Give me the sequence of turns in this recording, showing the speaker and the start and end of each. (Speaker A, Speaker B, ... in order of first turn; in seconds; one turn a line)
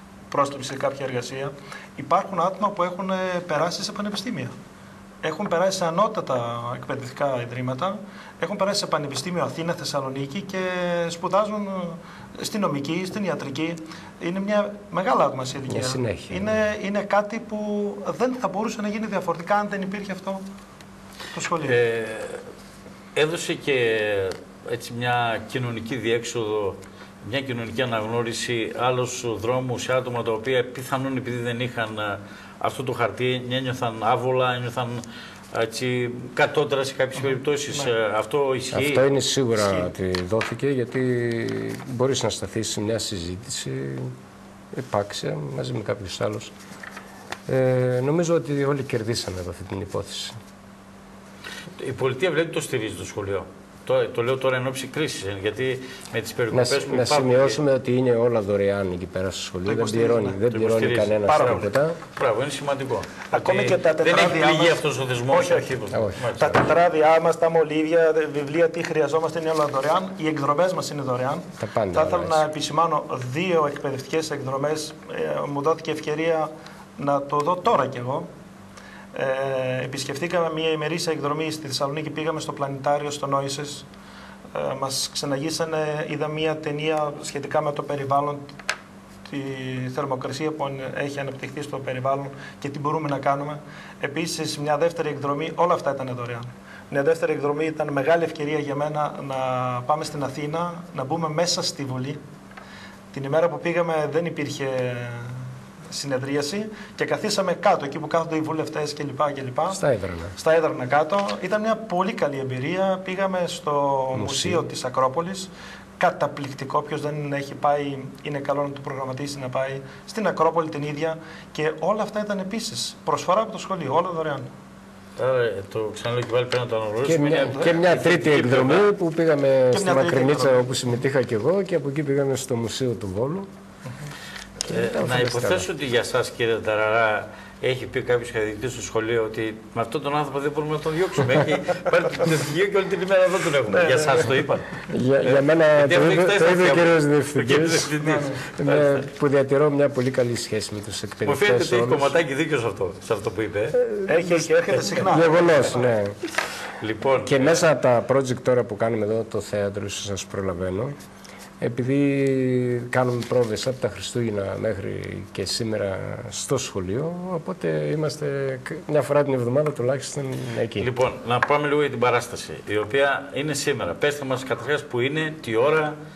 Speaker A: 0.3-4.5
Speaker A: 5.2-20.4
Speaker B: 15.7-16.6
Speaker A: 21.3-21.8
Speaker C: 21.6-22.4
Speaker C: 23.1-39.1
Speaker B: 38.7-44.1
Speaker B: 44.7-46.5
Speaker B: 47.5-50.4
Speaker C: 51.8-57.6
Speaker B: 56.5-62.0
Speaker A: 59.7-60.4
Speaker C: 60.5-66.7
Speaker A: 61.3-61.7
Speaker A: 63.3-65.7
Speaker B: 65.9-66.5
Speaker A: 66.4-78.3
Speaker B: 71.6-72.4
Speaker A: 79.1-83.9
Speaker A: 84.5-88.5
Speaker A: 89.3-102.2
Speaker A: 103.1-109.8
Speaker B: 109.7-110.3
Speaker A: 110.4-124.5
Speaker B: 114.1-114.7
Speaker C: 125.2-128.9
Speaker B: 127.0-133.5
Speaker A: 127.5-127.8
Speaker A: 129.7-130.8
Speaker C: 134.6-149.0
Speaker B: 134.7-135.7
Speaker A: 143.7-144.4
Speaker B: 144.9-148.0
Speaker A: 148.0-148.4
Speaker B: 148.5-152.2
Speaker C: 151.2-153.8
Speaker B: 153.8-156.2
Speaker A: 154.1-155.9
Speaker C: 156.8-157.6
Speaker B: 157.2-160.9
Speaker B: 161.6-170.9
Speaker C: 170.8-176.0